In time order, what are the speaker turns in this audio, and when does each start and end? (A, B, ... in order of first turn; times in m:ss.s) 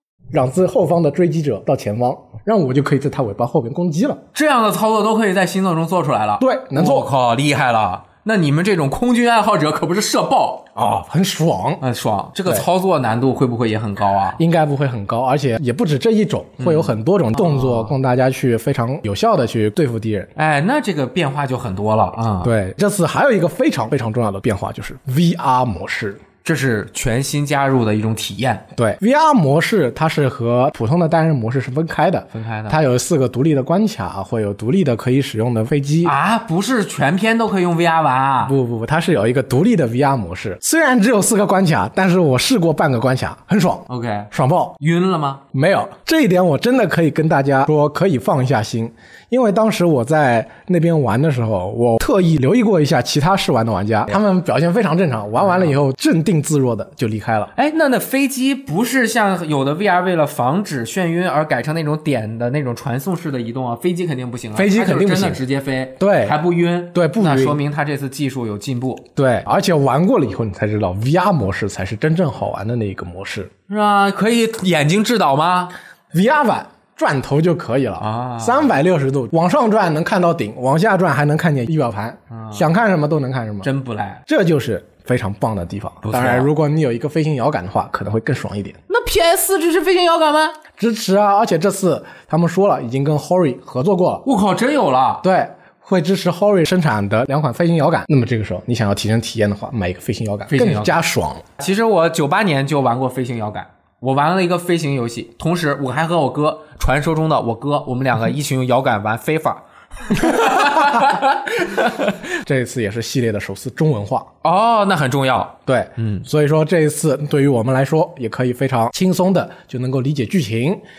0:00.3-0:04.2 A
0:04.3-0:10.6 B
0:06.4-0:07.1 A
0:10.7-0:11.8 A
0:11.8-0:14.4 B
0:14.4-0:20.3 A
0:16.6-0:17.9 B
0:20.4-0:22.5 B
0:22.4-0:26.2 A
0:26.4-0:28.6 B
0:28.7-0:36.1 A
0:32.3-0:32.8 B
0:36.0-0:38.5 B
0:38.4-0:44.8 A
0:43.9-0:45.4 B
0:45.5-0:57.5 A
0:55.4-0:55.7 B
0:57.5-1:09.0 B
1:04.5-1:05.4 A
1:06.0-1:06.4 A
1:06.9-1:07.6 A
1:09.2-1:13.5 A
1:13.7-1:15.7 B
1:16.1-1:23.7 A
1:18.0-1:18.7 B
1:22.3-1:22.6 B
1:23.6-1:24.2 B
1:24.3-1:28.8 A
1:26.0-1:26.5 B
1:28.9-1:30.6 B
1:30.8-1:34.2 A
1:34.2-1:35.2 B
1:35.2-1:41.4 A
1:40.5-1:40.9 B
1:41.6-1:51.3 B
1:52.4-1:54.3 A
1:54.4-1:56.2 B
1:56.2-2:00.8 A